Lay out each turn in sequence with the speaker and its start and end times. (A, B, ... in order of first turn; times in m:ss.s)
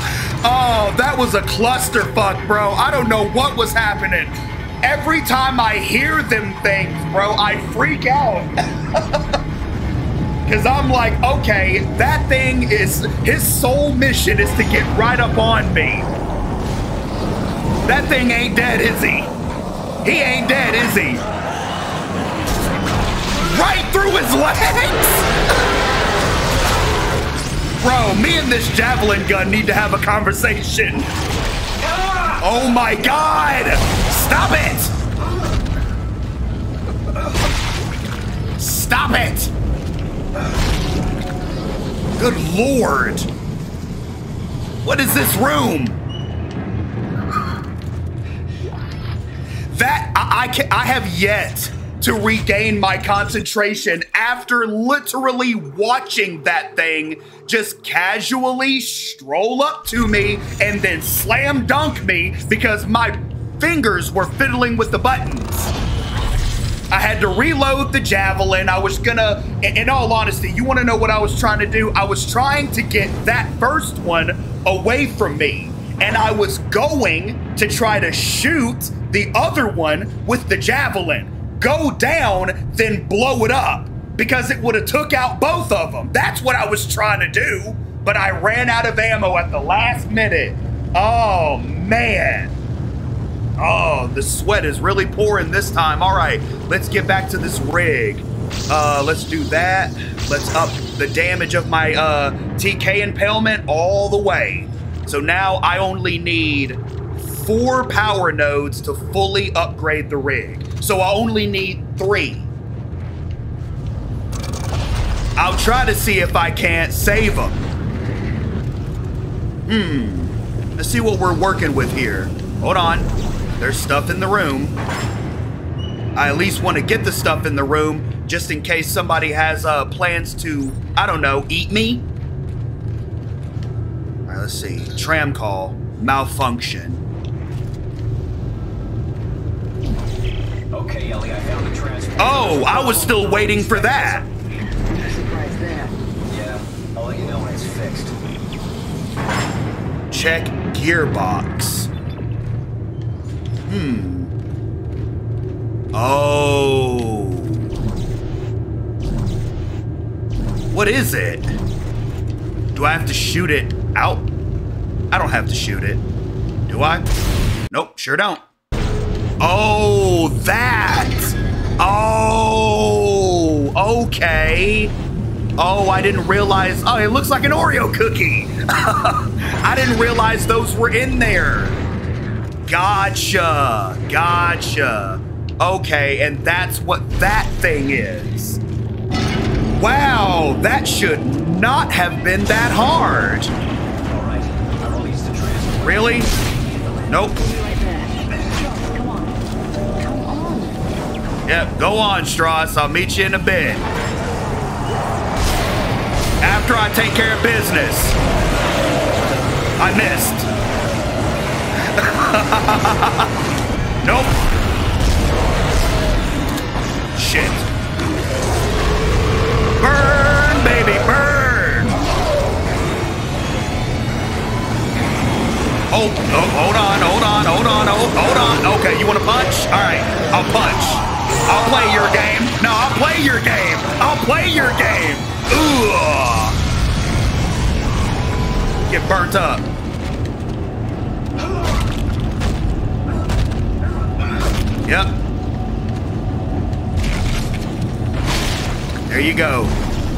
0:00.4-0:09.2 A
0:10.4-0:16.1 A
0:17.8-0:19.3 A
0:20.0-0:21.2 A
0:23.4-0:25.2 A
0:27.8-0:31.1 A
0:31.9-0:32.3 B
0:32.4-0:34.9 A
0:38.6-0:39.5 A
0:42.2-0:43.3 A
0:44.8-0:46.0 A
0:49.7-1:05.7 A
1:06.9-1:32.5 A
1:33.6-1:52.5 A
1:55.4-1:57.6 A
1:59.7-2:03.1 A
2:03.6-2:04.8 A
2:06.2-2:12.1 A
2:14.3-2:17.0 A
2:20.7-2:23.8 B
2:22.2-2:24.2 A
2:23.5-2:24.2 C
2:24.8-2:25.9 C
2:26.3-2:28.1 B
2:30.1-2:31.9 A
2:33.7-2:34.3 A
2:35.9-2:37.6 A
2:40.7-2:41.5 A
2:42.7-2:44.3 A
2:45.1-2:46.0 A
2:46.7-2:47.0 A
2:47.7-2:48.4 A
2:49.4-2:54.9 A
2:55.6-3:01.8 A
3:02.7-3:08.6 A
3:09.7-3:13.5 A
3:14.1-3:16.3 B
3:15.8-3:16.3 A
3:17.1-3:17.4 A
3:17.3-3:19.4 C
3:20.0-3:20.8 C
3:21.4-3:23.9 A
3:26.4-3:28.2 A
3:29.8-3:30.5 A
3:31.9-3:33.3 A
3:34.0-3:34.4 A
3:37.1-3:37.7 A
3:39.8-3:41.9 A
3:45.9-3:56.6 A
3:58.9-3:59.6 A
4:04.8-4:05.1 A
4:09.1-4:09.8 A